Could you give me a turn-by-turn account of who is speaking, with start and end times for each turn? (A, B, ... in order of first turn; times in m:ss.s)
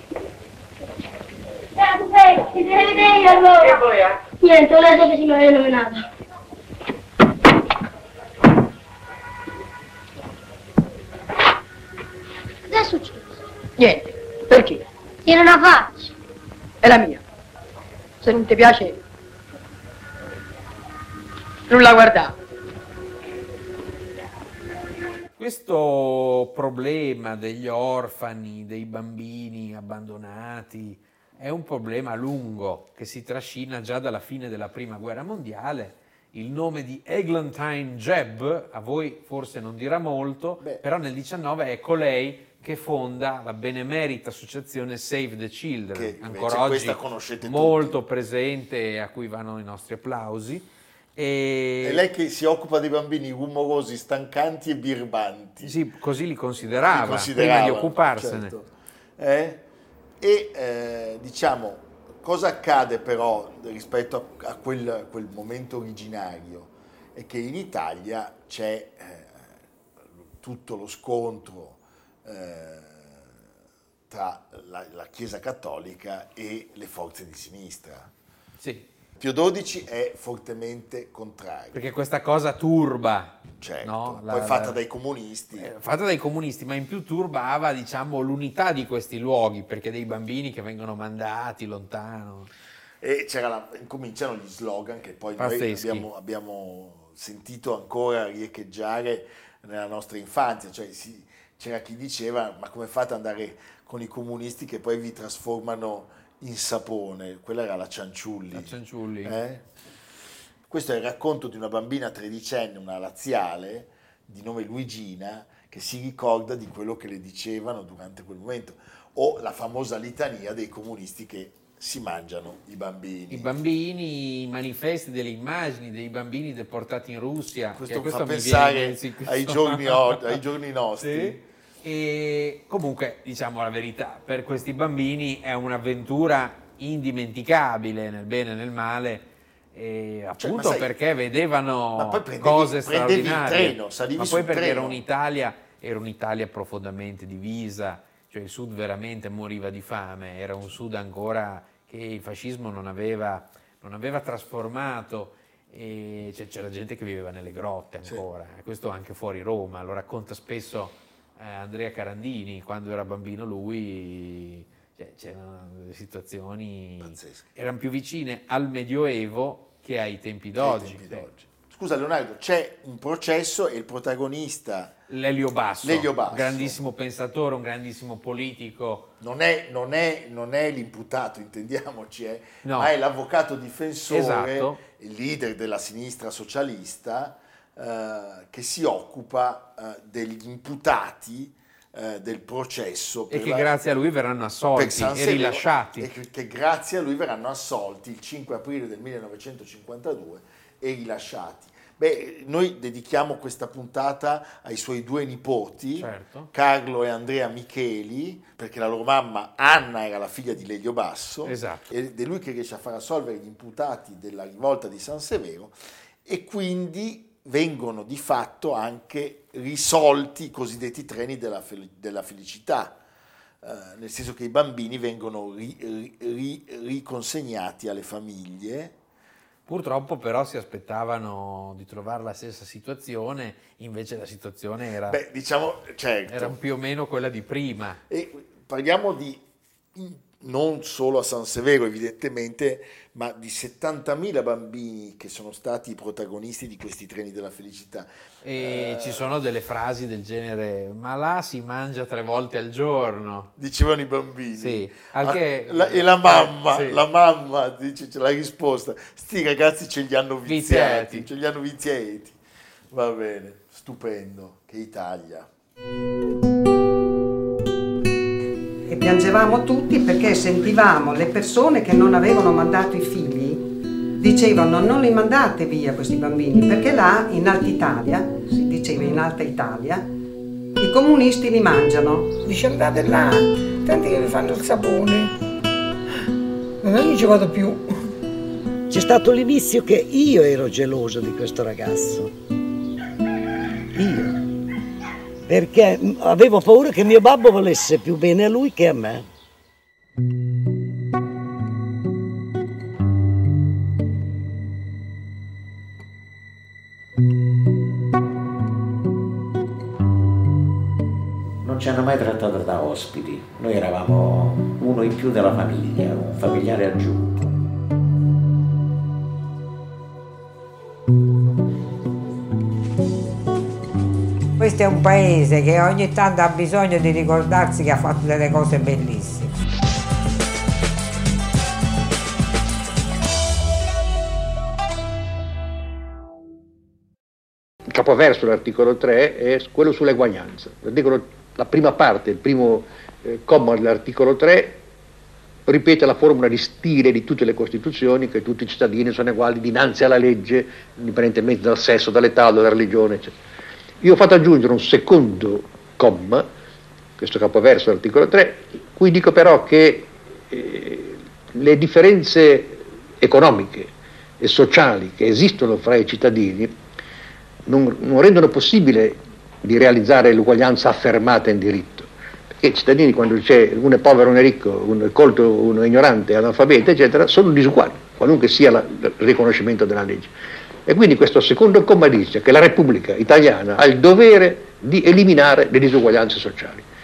0:01.8-0:06.1 A
0:12.7-0:13.4 A
0:13.8-0:14.8 B
0:15.2-0:16.1 A
0:16.8-0:17.2 B
0:18.2-0:19.0 B
0:21.7-0:22.3 B
0:25.4-0:52.0 C
0:40.6-0:40.8 D
0:45.9-0:48.0 D
0:51.8-0:55.8 D
0:55.6-0:58.5 C
0:56.8-0:59.6 D
1:00.2-1:09.4 D
1:10.4-1:13.3 D
1:14.1-1:18.1 D
1:18.6-1:18.9 C
1:19.2-1:21.8 D
1:21.7-1:24.8 C
1:23.6-1:25.7 D
1:25.6-1:32.5 C
1:33.0-1:49.6 D
1:35.4-1:36.1 C
1:48.5-1:49.4 C
1:50.7-2:03.5 D
2:03.3-2:10.4 C
2:07.8-2:11.4 D
2:11.0-2:51.2 C
2:20.4-2:20.9 D
2:22.0-2:25.0 D
2:47.0-2:47.4 D
2:50.6-2:54.9 D
2:55.1-2:59.1 C
2:55.8-2:56.8 D
2:59.2-3:13.7 D
3:02.6-3:02.9 C
3:04.1-3:04.8 C
3:13.3-3:16.1 C
3:14.8-3:43.0 D
3:25.9-3:26.5 C
3:31.4-3:31.9 C
3:43.6-3:49.0 D
3:49.6-3:55.2 C
3:55.0-3:56.6 D
3:56.3-3:58.0 C
3:58.1-3:59.4 D
3:59.9-4:09.4 D
4:08.4-4:13.5 C
4:13.6-4:22.4 D
4:14.6-4:17.0 C
4:20.4-4:21.3 C
4:22.9-4:25.5 D
4:28.9-4:33.7 E
4:34.2-4:40.1 E
4:40.8-4:42.3 E
4:42.4-4:45.4 F
4:46.8-4:47.9 F
4:48.9-4:52.3 G
4:53.9-4:54.4 G
4:55.4-4:59.3 G
5:11.6-5:17.6 H
5:24.6-5:29.5 I
5:37.9-5:44.8 J
5:45.6-5:53.3 J
5:54.0-5:56.5 J
5:57.2-6:06.7 J
6:07.6-6:20.3 J
6:20.8-6:26.9 J